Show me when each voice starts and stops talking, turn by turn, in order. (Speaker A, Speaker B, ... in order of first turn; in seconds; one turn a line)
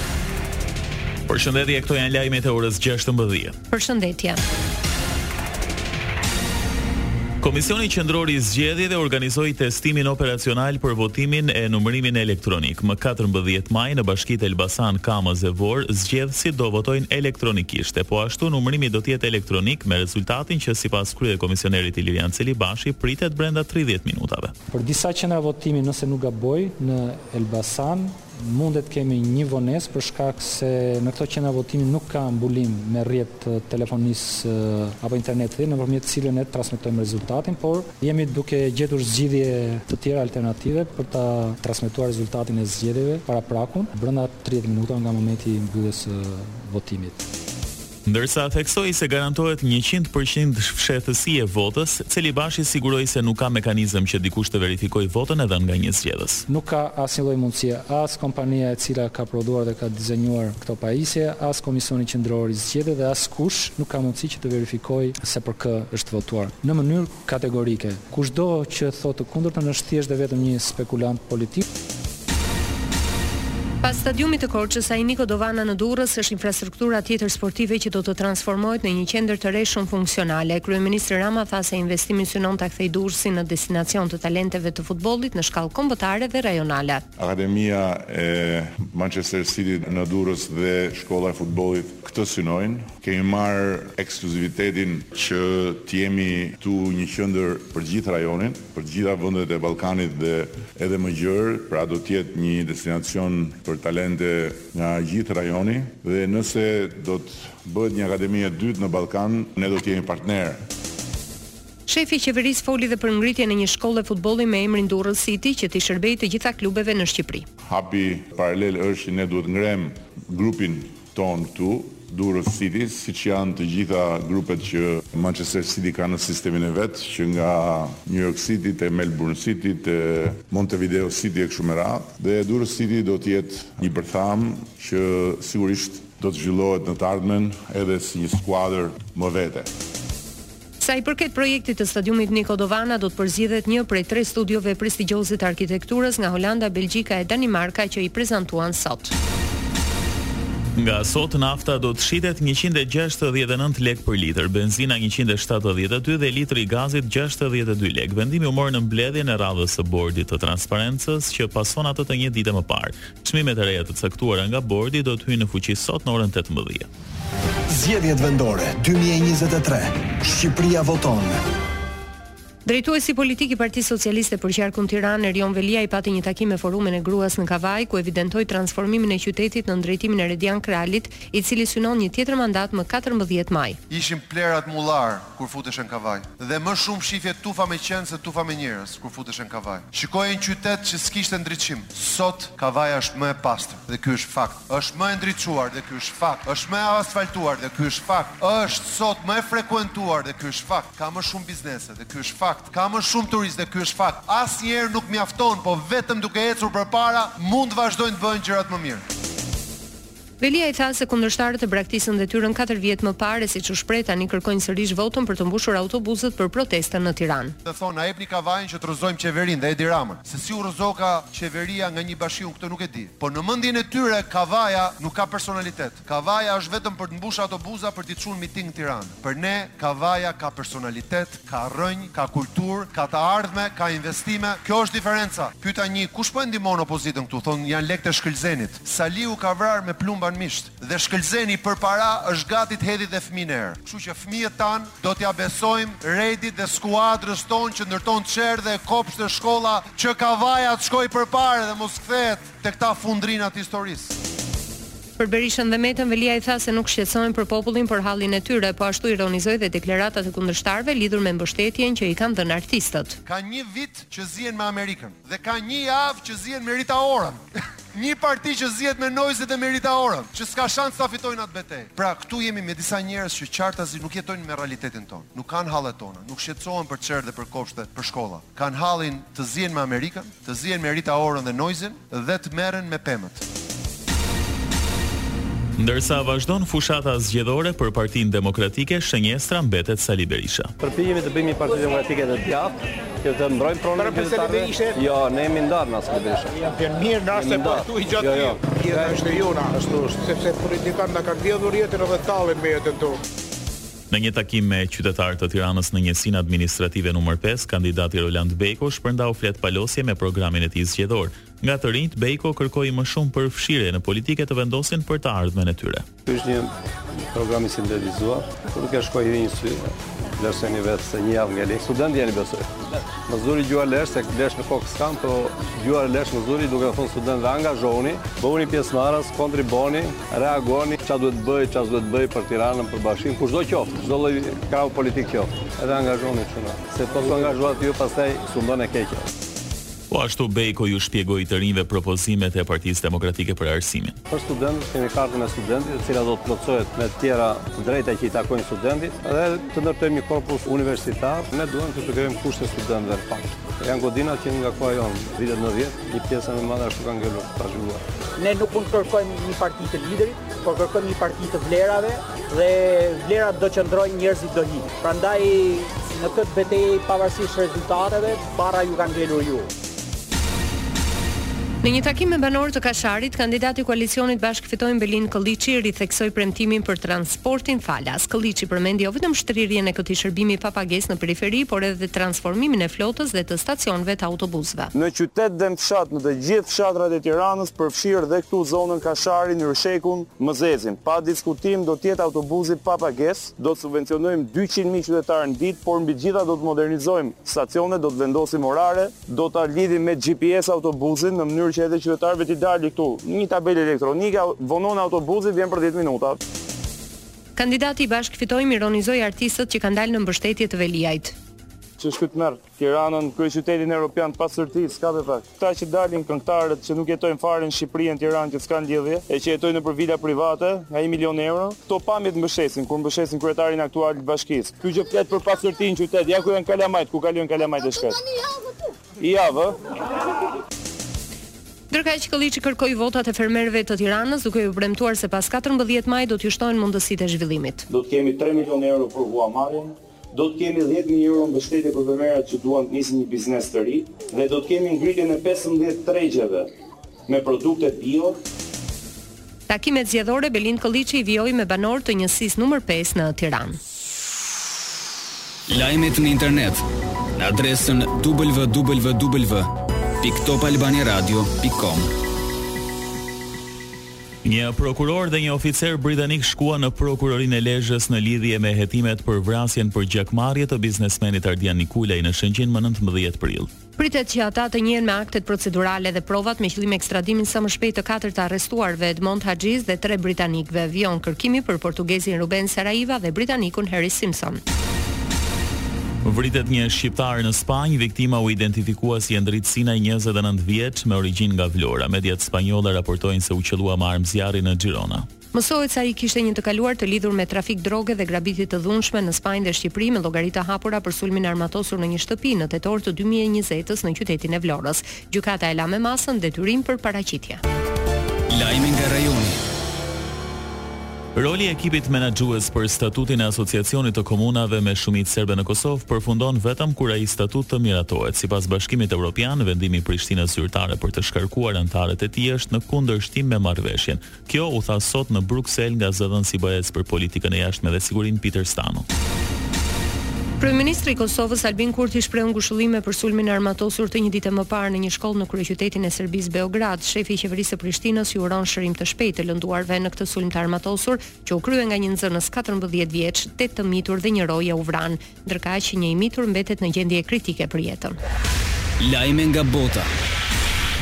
Speaker A: 1.3-3.5
Speaker B: 3.7-4.4
Speaker A: 7.4-24.5
Speaker C: 24.7-47.2
Speaker A: 48.1-56.4
Speaker C: 56.5-71.6
Speaker B: 73.8-87.0
Speaker D: 87.2-110.6
Speaker B: 111.9-117.5
Speaker D: 117.7-139.7
Speaker B: 140.8-149.1
Speaker A: 150.8-166.9
Speaker E: 167.8-171.3
Speaker B: 172.7-183.8
Speaker F: 183.9-209.0
Speaker B: 210.4-217.5
Speaker F: 217.6-254.1
Speaker B: 255.2-263.2
Speaker F: 263.2-267.4
Speaker F: 267.9-283.4
Speaker A: 285.8-290.7
Speaker G: 290.8-299.2
Speaker H: 294.0-294.9
Speaker H: 296.9-303.1
Speaker A: 304.1-316.0
Speaker G: 316.2-316.7
Speaker G: 317.3-322.7
Speaker G: 323.2-339.3
Speaker A: 340.1-344.1
Speaker G: 344.3-358.0
Speaker I: 358.4-369.7
Speaker B: 371.8-384.9
Speaker J: 384.9-406.4
Speaker B: 407.6-411.3
Speaker J: 412.0-428.2
Speaker J: 429.2-429.8
Speaker B: 431.9-437.9
Speaker J: 437.9-446.7
Speaker J: 447.3-448.4
Speaker B: 449.7-453.8
Speaker K: 455.7-456.8
Speaker K: 457.4-462.1
Speaker A: 464.4-473.7
Speaker B: 474.0-484.6
Speaker A: 486.2-495.3
Speaker B: 495.5-507.6
Speaker K: 508.5-509.6
Speaker A: 511.4-529.0
Speaker B: 530.6-548.2
Speaker K: 549.0-550.1